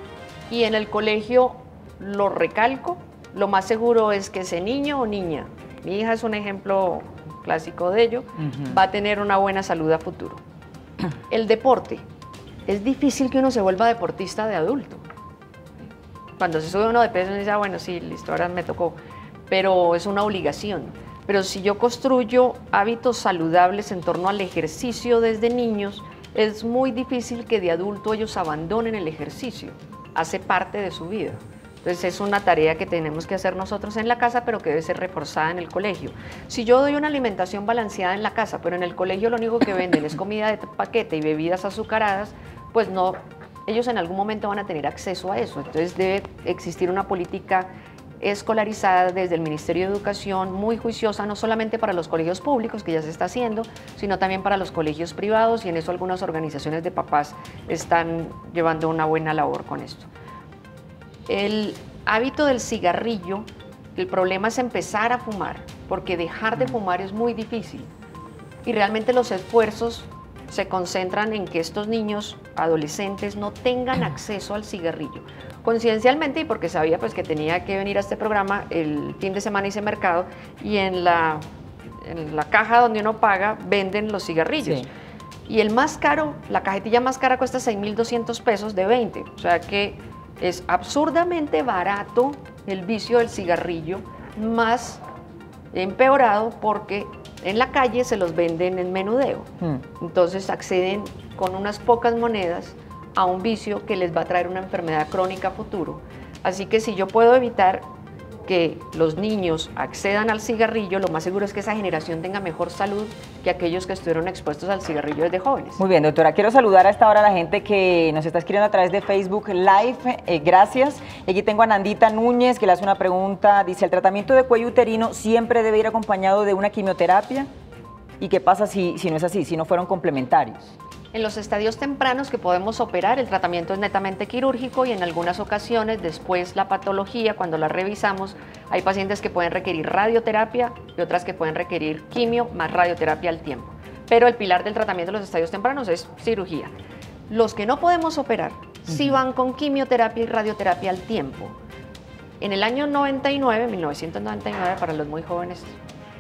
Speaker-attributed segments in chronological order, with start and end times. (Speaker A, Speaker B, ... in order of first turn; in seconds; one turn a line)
Speaker A: 0.5-10.4
Speaker B: 8.4-8.7
Speaker A: 11.3-12.0
Speaker A: 12.7-15.0
Speaker A: 16.4-19.0
Speaker A: 19.5-47.7
Speaker A: 48.2-60.1
Speaker A: 61.3-67.9
Speaker A: 68.6-81.4
Speaker A: 82.0-84.8
Speaker B: 84.6-84.9
Speaker A: 85.5-95.0
Speaker A: 95.7-107.8
Speaker A: 108.5-115.8
Speaker B: 115.8-127.5
Speaker B: 128.2-130.7
Speaker A: 131.1-146.7
Speaker A: 147.3-151.5
Speaker A: 152.4-155.8